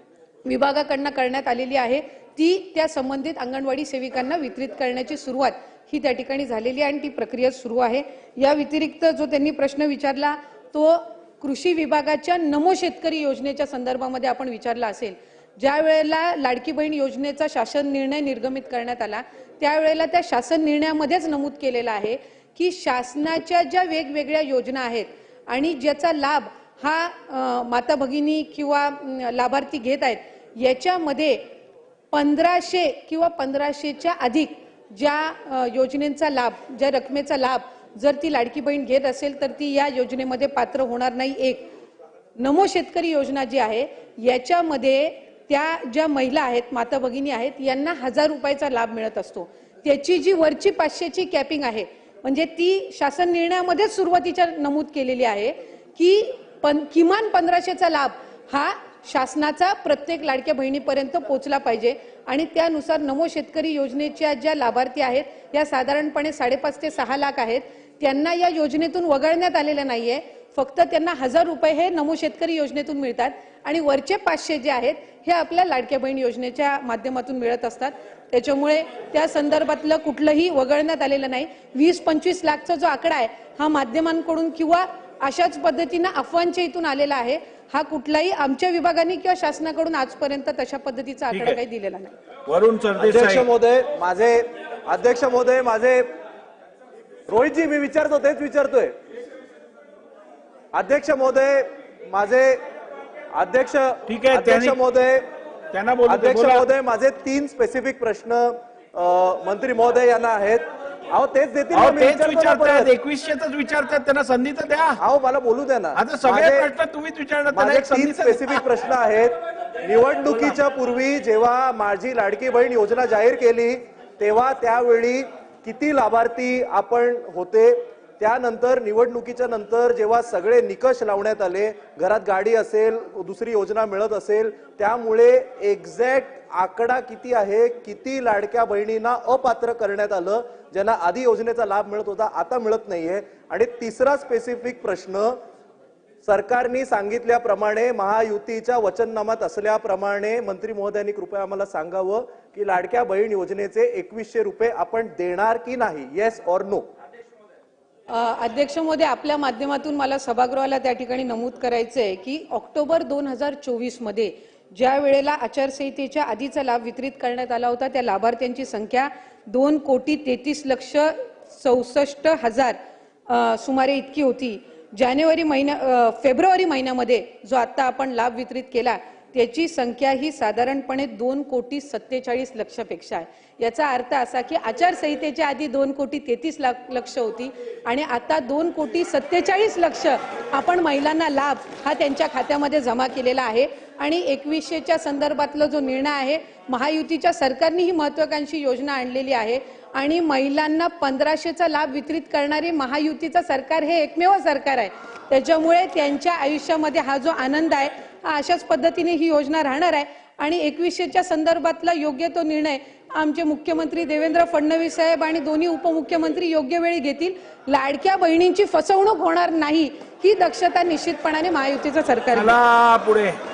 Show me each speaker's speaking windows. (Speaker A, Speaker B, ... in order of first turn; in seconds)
Speaker A: 0.5-31.4, 32.1-41.7, 42.4-92.2, 158.1-172.8, 173.3-222.6
Speaker B: 91.3-91.6, 92.5-93.5, 104.1-104.8, 105.7-106.7, 111.7-115.0, 116.0-118.6, 222.3-223.4
Speaker C: 93.0-96.1, 97.3-99.0, 100.7-102.6, 103.3-105.2, 106.1-112.9, 115.0-116.7, 117.5-145.4, 146.2-156.9